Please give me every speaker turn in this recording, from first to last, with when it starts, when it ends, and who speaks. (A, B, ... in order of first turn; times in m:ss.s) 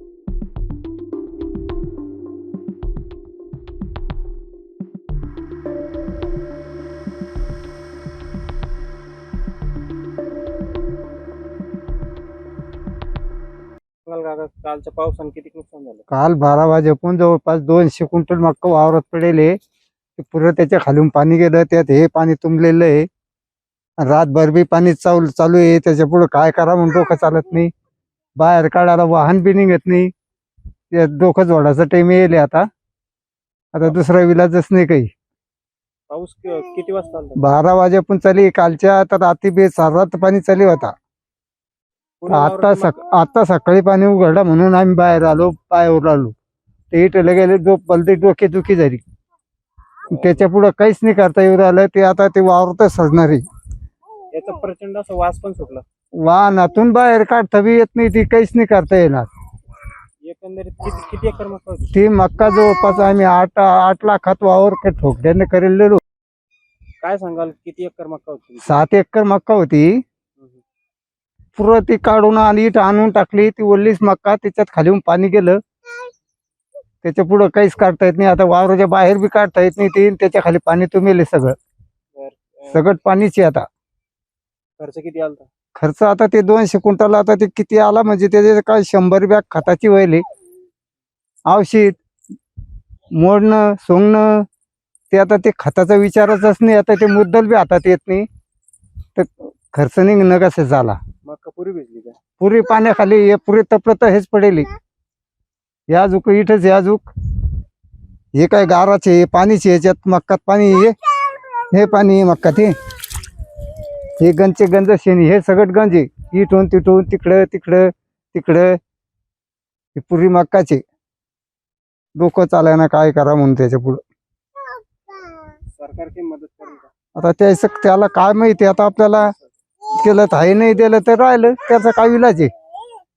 0:14.0-0:16.0 A
0:16.1-0:19.6 B
0:20.2-0:23.1 B
0:24.0-0:27.7 B
0:28.4-0:30.1 B
0:30.9-0:32.7 B
0:33.7-0:35.1 B
0:36.1-0:37.4 A
0:37.4-0:40.9 B
0:42.2-0:43.0 A
0:42.3-0:46.3 B
0:46.9-0:49.0 B
0:50.1-0:50.4 A
0:50.1-0:53.4 B
0:54.3-0:55.8 A
0:56.2-0:59.3 B
1:00.2-1:01.9 A
1:01.9-1:06.0 B
1:07.0-1:08.8 A
1:08.6-1:10.0 B
1:11.6-1:15.6 B
1:17.0-1:21.6 B
1:22.1-1:22.8 A
1:22.7-1:23.7 B
1:24.8-1:25.5 A
1:25.8-1:30.2 B
1:31.5-1:32.0 B
1:33.2-1:34.4 B
1:35.1-1:38.3 B
1:39.2-1:41.0 B
1:41.2-1:42.2 A
1:42.4-1:44.7 B
1:45.9-1:47.1 B
1:48.4-1:51.0 B
1:51.7-1:52.7 B
1:54.2-1:58.8 B
1:59.9-2:00.8 B
2:02.2-2:04.0 B
2:05.8-2:06.9 A
2:07.2-2:09.3 B
2:09.2-2:09.5 A
2:09.9-2:12.5 B